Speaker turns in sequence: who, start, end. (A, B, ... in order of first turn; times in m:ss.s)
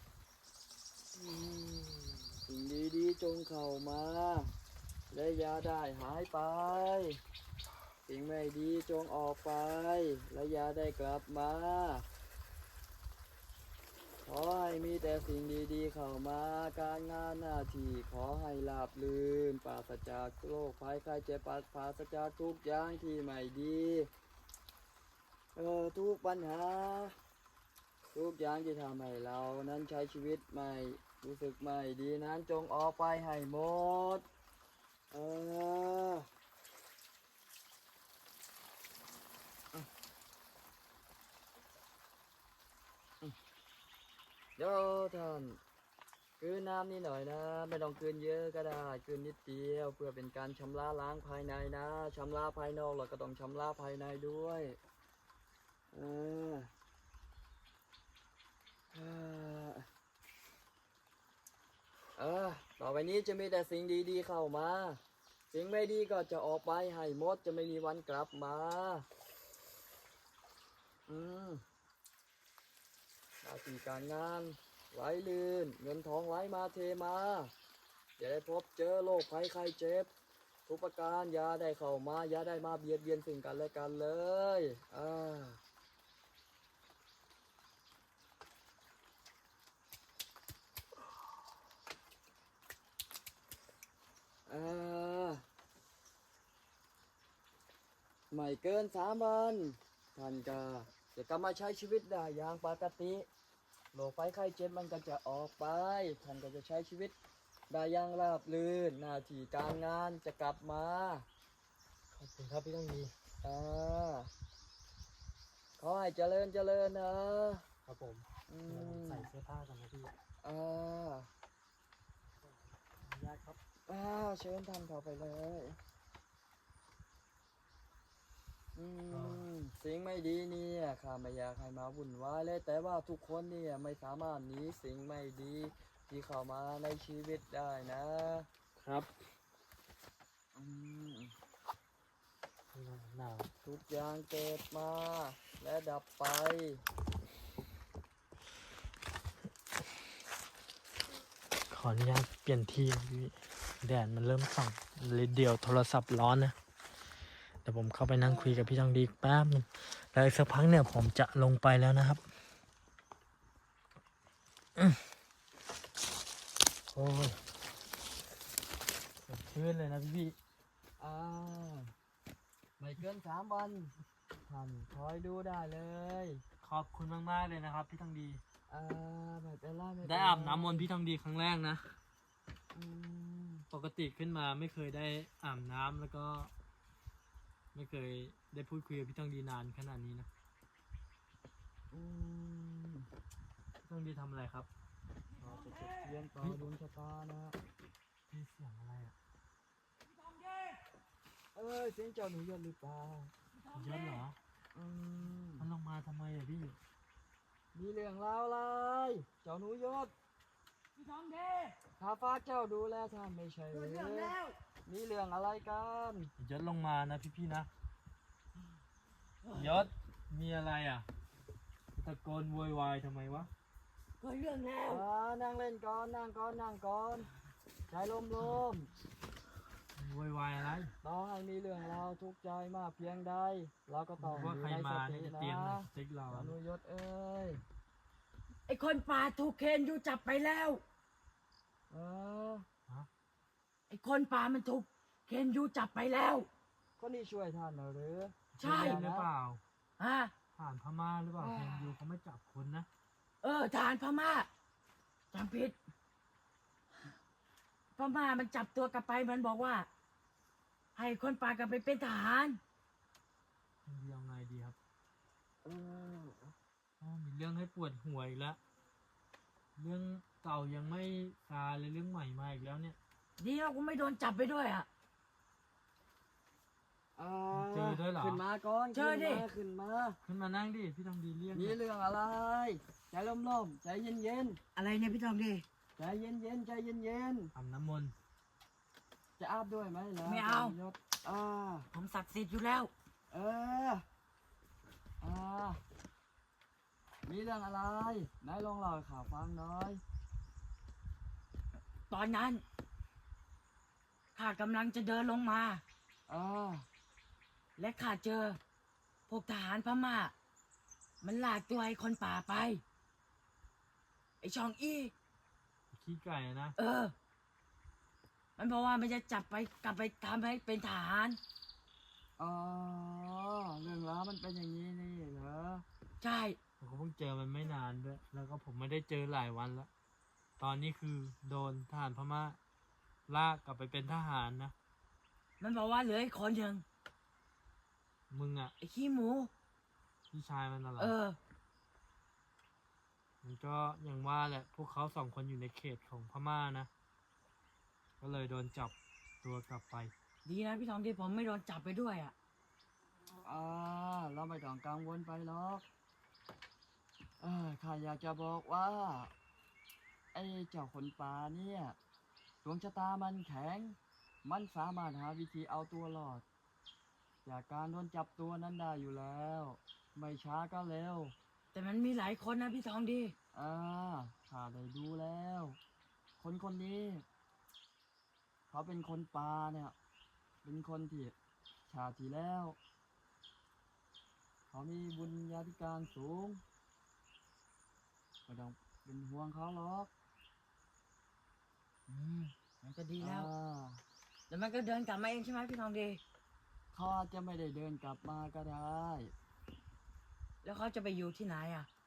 0:01.1-0:04.5 A
0:05.1-0:07.2 A
0:08.1-0:12.0 A
0:14.2-0:24.1 A
0:25.5-0:27.2 A
0:28.1-0:34.2 A
0:35.1-0:36.3 A
0:44.6-0:45.6 A
0:46.4-0:54.8 A
0:55.9-0:56.7 A
0:58.9-0:59.8 A
1:02.2-1:09.0 A
1:11.1-1:11.6 A
1:13.4-1:17.5 A
1:18.2-1:20.1 A
1:20.7-1:25.6 A
1:34.4-1:35.4 A
1:38.3-1:43.3 A
1:43.9-1:47.1 A
1:47.7-1:51.3 A
1:52.1-1:53.1 B
1:53.4-1:54.3 A
1:55.8-1:57.6 A
1:57.8-2:00.1 B
1:58.5-1:59.3 A
2:00.4-2:01.3 A
2:02.8-2:03.6 B
2:03.9-2:05.8 A
2:08.7-2:18.5 A
2:09.1-2:09.4 B
2:18.8-2:19.1 B
2:20.5-2:21.3 A
2:22.7-2:23.5 B
2:23.6-2:26.8 A
2:31.7-2:36.5 B
2:37.6-2:42.2 B
2:38.2-2:38.7 A
2:46.9-2:47.4 B
2:49.2-2:50.4 B
2:51.0-2:51.9 A
2:52.8-2:53.9 A
2:54.4-2:56.4 A
2:56.6-2:58.4 B
2:58.7-3:00.9 A
3:00.0-3:02.0 B
3:02.7-3:03.6 A
3:03.7-3:06.5 B
3:07.7-3:10.3 B
3:11.9-3:13.1 A
3:13.8-3:14.7 B
3:15.4-3:17.6 A
3:18.3-3:19.1 B
3:20.2-3:20.8 C
3:21.5-3:23.3 A
3:23.6-3:24.2 C
3:23.7-3:24.4 B
3:24.7-3:25.7 A
3:25.6-3:26.8 B
3:27.7-3:30.1 A
3:31.0-3:31.8 C
3:32.0-3:36.3 A
3:33.7-3:34.6 C
3:36.4-3:37.7 B
3:39.4-3:39.9 C
3:39.5-3:41.0 B
3:41.9-3:43.5 B
3:44.2-3:45.0 C
3:44.8-3:47.3 A
3:47.9-3:48.9 A
3:50.0-3:50.9 B
3:51.0-3:57.6 A
3:54.2-3:56.6 B
3:58.7-4:00.8 C
4:01.9-4:02.6 A
4:03.9-4:06.5 C
4:07.0-4:09.3 A
4:08.5-4:09.6 B
4:08.6-4:09.0 C
4:10.0-4:10.3 C
4:10.5-4:12.9 B
4:11.4-4:11.9 A
4:13.4-4:14.5 C
4:15.3-4:15.8 C
4:18.0-4:19.9 C
4:21.0-4:22.6 C
4:23.8-4:24.8 B
4:25.6-4:26.5 A
4:27.0-4:28.6 B
4:29.8-4:33.0 B
4:33.4-4:34.9 C
4:37.2-4:40.2 A
4:37.5-4:38.4 B
4:38.9-4:39.5 C
4:40.2-4:41.8 B
4:41.5-4:44.6 A
4:44.7-4:45.6 C
4:46.0-4:47.5 A
4:47.5-4:48.1 B
4:49.4-4:51.9 A
4:50.2-4:50.8 C
4:51.9-4:52.9 C
4:53.3-4:54.0 A
4:55.2-4:55.8 A
4:57.2-5:00.0 A
5:02.1-5:02.6 C
5:04.3-5:05.8 C
5:06.3-5:06.9 A
5:07.8-5:08.6 C
5:09.3-5:10.3 C
5:11.2-5:12.8 C
5:14.4-5:15.1 C
5:15.9-5:16.8 B
5:16.8-5:17.1 C
5:18.6-5:21.4 C
5:22.4-5:25.8 A
5:26.2-5:26.6 C
5:26.8-5:29.9 B
5:30.6-5:32.6 B
5:33.3-5:34.7 B
5:35.6-5:36.8 C
5:38.3-5:38.7 B
5:38.8-5:39.5 C
5:40.3-5:41.2 B
5:41.0-5:41.4 C
5:43.4-5:46.9 B
5:48.2-5:50.1 B
5:50.4-5:52.3 C
5:53.4-5:55.8 A
5:57.4-5:59.3 A
6:00.3-6:02.0 A
6:02.6-6:06.4 A
6:07.4-6:11.3 A
6:11.7-6:13.3 C
6:13.5-6:15.8 A
6:16.4-6:17.2 A
6:18.7-6:19.9 A
6:20.6-6:21.3 A
6:21.9-6:22.8 A
6:24.7-6:26.6 A
6:28.5-6:30.1 A
6:32.1-6:33.5 C
6:33.2-6:34.0 A
6:34.5-6:36.2 C
6:36.9-6:39.3 A
6:40.6-6:41.9 C